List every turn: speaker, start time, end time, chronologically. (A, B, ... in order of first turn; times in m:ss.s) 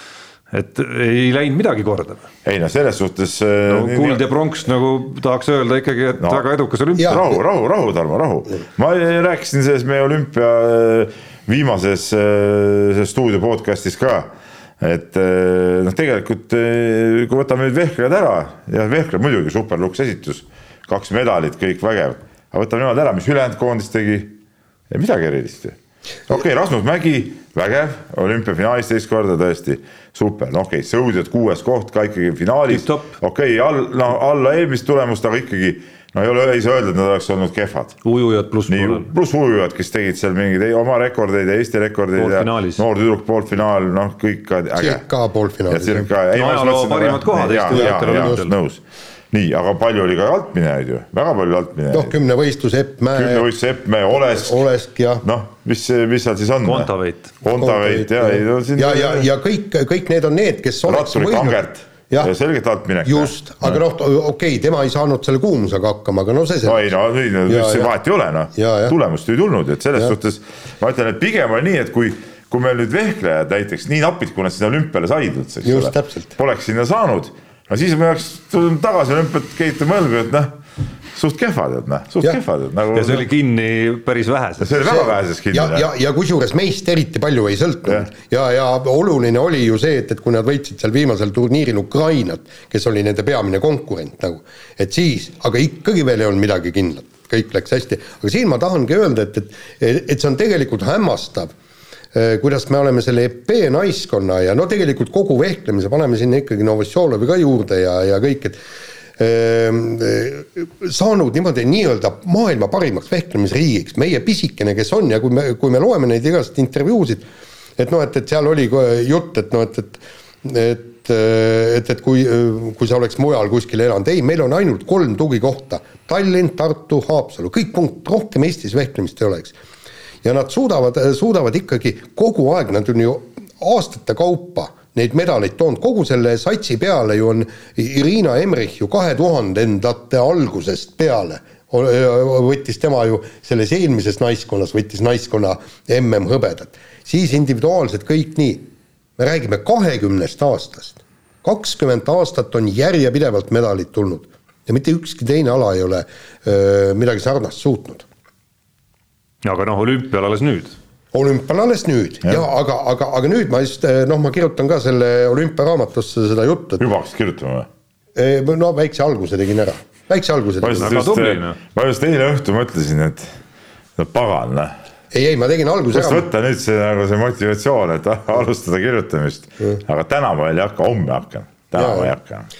0:00.5-0:02.3 A
0:02.4-0:04.2 B
0:03.7-0:07.3 A
0:07.0-0:14.3 B
0:14.8-0:24.3 B
0:24.9-0:25.8 B
0:26.3-0:38.0 B
0:32.7-0:33.1 A
0:38.0-0:39.1 A
0:38.7-0:45.0 B
0:42.2-0:42.8 A
0:44.8-0:46.1 C
0:45.7-0:48.8 B
0:46.3-0:48.5 A
0:47.7-0:48.5 C
0:49.3-0:52.2 B
0:51.9-0:53.5 C
0:53.1-0:54.6 B
0:54.3-0:55.2 C
0:55.2-0:56.9 B
0:56.6-0:57.3 A
0:57.4-0:59.3 B
0:57.5-1:02.3 C
1:00.9-1:03.8 B
1:03.1-1:06.9 C
1:06.6-1:20.6 B
1:07.5-1:07.9 C
1:08.6-1:09.0 C
1:15.6-1:16.4 C
1:21.1-1:23.3 B
1:22.9-1:24.8 A
1:24.6-1:25.9 B
1:24.8-1:41.5 C
1:42.1-1:48.6 C
1:49.2-1:57.3 C
1:57.8-2:09.6 C
2:10.2-2:28.6 C
2:29.2-2:38.1 C
2:39.4-2:40.8 A
2:41.1-2:46.8 C
2:46.8-2:47.7 B
2:48.2-2:51.0 C
2:50.6-2:53.4 B
2:50.8-2:51.6 A
2:54.0-2:54.7 B
2:55.1-2:56.3 C
2:55.9-3:02.5 B
3:01.8-3:02.1 C